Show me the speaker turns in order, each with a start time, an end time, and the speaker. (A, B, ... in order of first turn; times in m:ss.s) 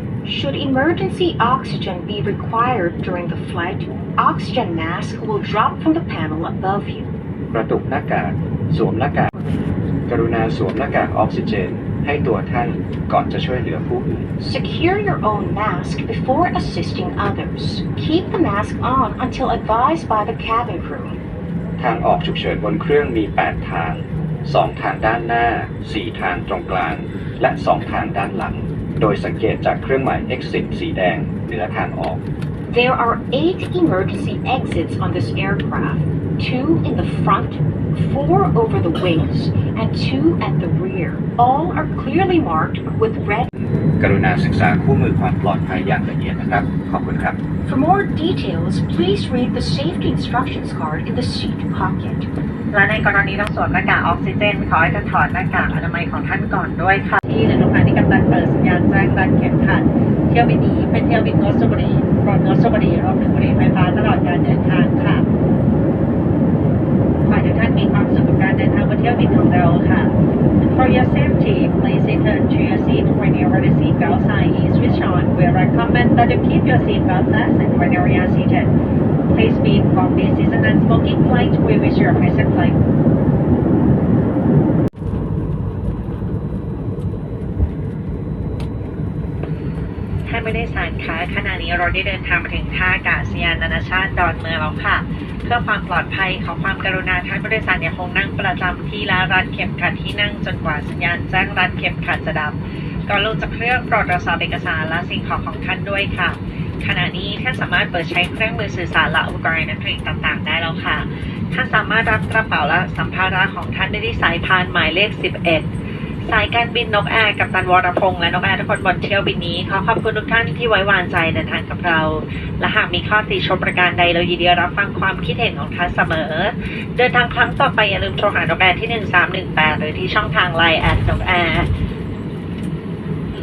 0:00.2-0:07.1 A
0:07.5-0:09.3 B
0:09.4-0:09.6 A
0:10.1-0:14.3 B
0:14.4-0:21.2 A
0:21.8-0:32.2 B
0:32.7-0:43.5 A
0:43.6-0:47.4 B
0:47.6-0:52.3 A
0:52.7-1:05.2 C
1:07.3-1:18.7 C
1:19.3-1:22.8 C
1:30.2-1:55.7 C
1:56.2-2:11.7 C